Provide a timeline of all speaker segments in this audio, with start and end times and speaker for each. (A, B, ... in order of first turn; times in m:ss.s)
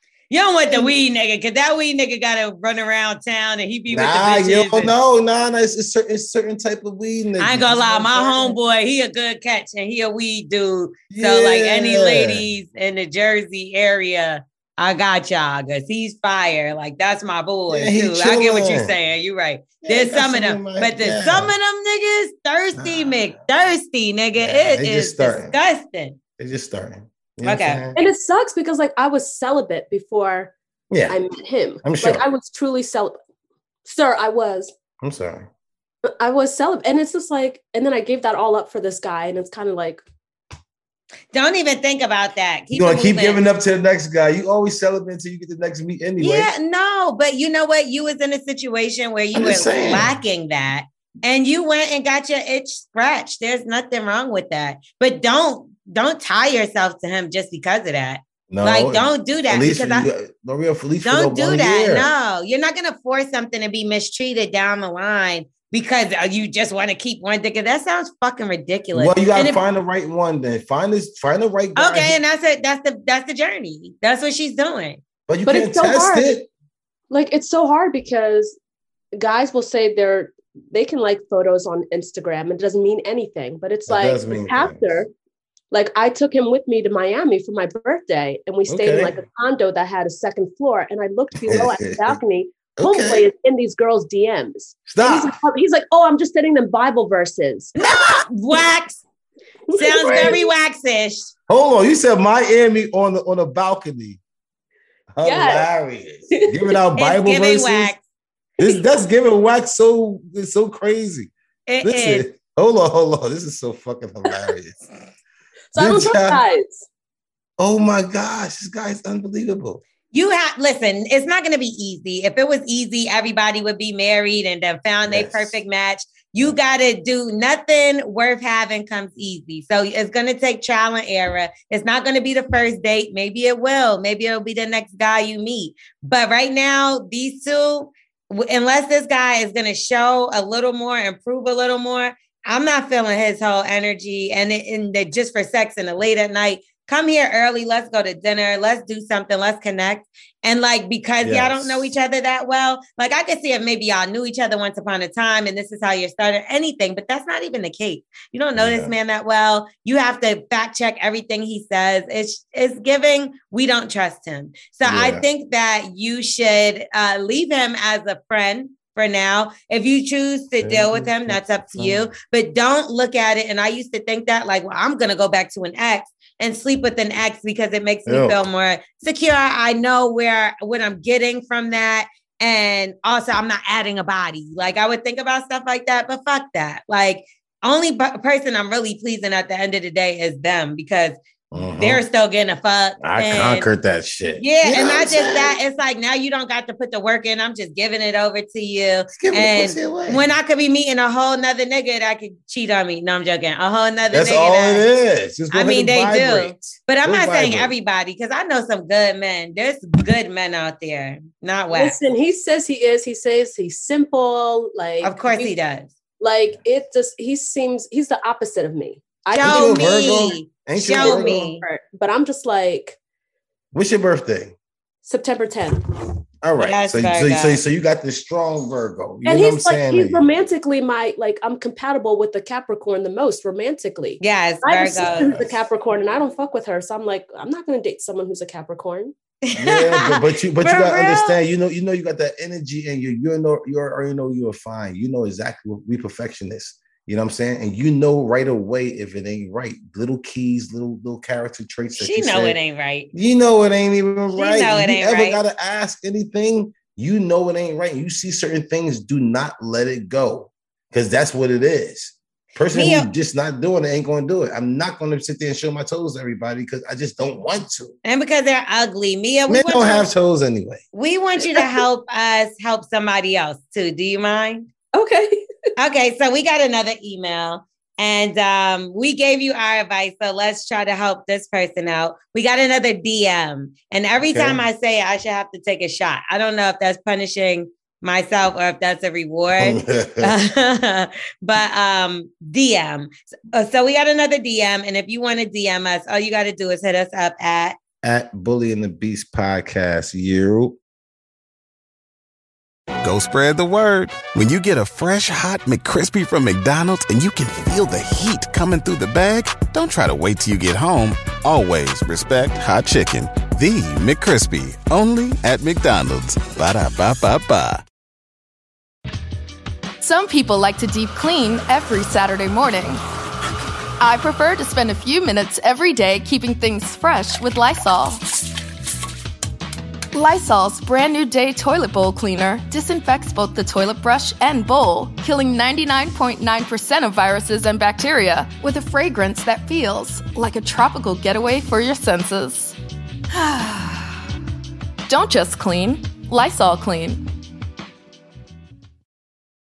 0:00.3-0:04.9 A
0:03.9-0:08.6 B
0:07.4-0:26.2 A
0:11.1-0:12.4 B
0:17.7-0:18.9 B
0:19.8-0:21.5 B
0:22.8-0:23.3 B
0:24.4-0:25.6 B
0:26.4-0:28.0 B
0:27.4-0:27.9 A
0:28.0-0:30.5 C
0:30.9-0:31.2 B
0:31.1-0:33.2 C
0:31.8-0:32.2 B
0:33.8-0:34.7 C
0:35.0-0:35.5 B
0:36.1-0:40.0 C
0:41.3-0:43.4 A
0:42.7-0:46.5 B
0:46.2-1:00.1 A
0:49.3-0:50.1 B
0:58.5-1:02.1 B
1:01.0-1:09.6 A
1:08.9-1:12.2 B
1:11.8-1:15.0 A
1:15.3-1:16.5 B
1:15.4-1:16.3 C
1:17.1-1:18.6 C
1:19.2-1:25.1 C
1:23.9-1:25.0 B
1:25.7-1:37.7 C
1:28.7-1:29.2 B
1:31.4-1:32.2 B
1:32.8-1:33.3 B
1:34.9-1:35.4 B
1:37.8-1:39.0 A
1:39.7-1:40.5 C
1:39.7-1:41.3 A
1:40.0-1:40.4 B
1:41.5-1:44.2 B
1:45.1-1:47.9 B
1:45.2-1:45.6 C
1:46.4-1:46.7 C
1:47.0-1:48.0 A
1:48.6-1:48.8 C
1:48.6-1:54.9 B
1:51.7-1:52.3 A
1:55.7-1:56.8 C
1:55.8-1:56.4 B
1:57.6-1:59.8 B
2:00.1-3:11.2 A
2:05.0-2:05.6 B
2:31.2-2:31.9 B
2:38.6-2:38.9 B
2:44.8-2:45.2 B
2:50.6-2:52.1 B
2:58.1-2:58.4 B
3:11.5-3:12.0 B
3:11.7-3:13.7 A
3:13.0-3:15.6 B
3:14.4-3:24.9 A
3:19.1-3:20.2 B
3:24.1-3:27.7 B
3:25.5-3:32.0 A
3:31.7-3:35.5 C
3:35.0-3:35.9 A
3:36.2-3:40.0 C
3:39.3-3:41.6 A
3:39.4-3:41.5 B
3:40.9-3:43.0 C
3:43.7-3:44.5 B
3:45.0-3:45.8 C
3:46.4-3:50.2 B
3:46.6-3:47.6 A
3:49.2-3:59.1 C
3:54.2-3:55.3 A
3:55.0-3:55.6 B
3:59.4-4:01.4 A
3:59.5-4:12.6 B
4:12.0-4:13.1 A
4:13.1-4:28.0 B
4:14.3-4:15.4 A
4:22.7-4:23.1 A
4:28.0-4:30.1 A
4:29.5-4:30.8 B
4:30.9-4:34.7 A
4:34.9-4:35.4 C
4:35.8-4:57.8 A
4:44.2-4:44.6 B
4:49.6-4:50.3 B
4:58.0-5:00.8 B
5:03.0-5:17.8 D
5:20.0-5:23.0 E
5:24.0-5:28.2 E
5:30.1-5:42.8 E
5:43.3-5:44.1 E
5:45.1-5:47.2 E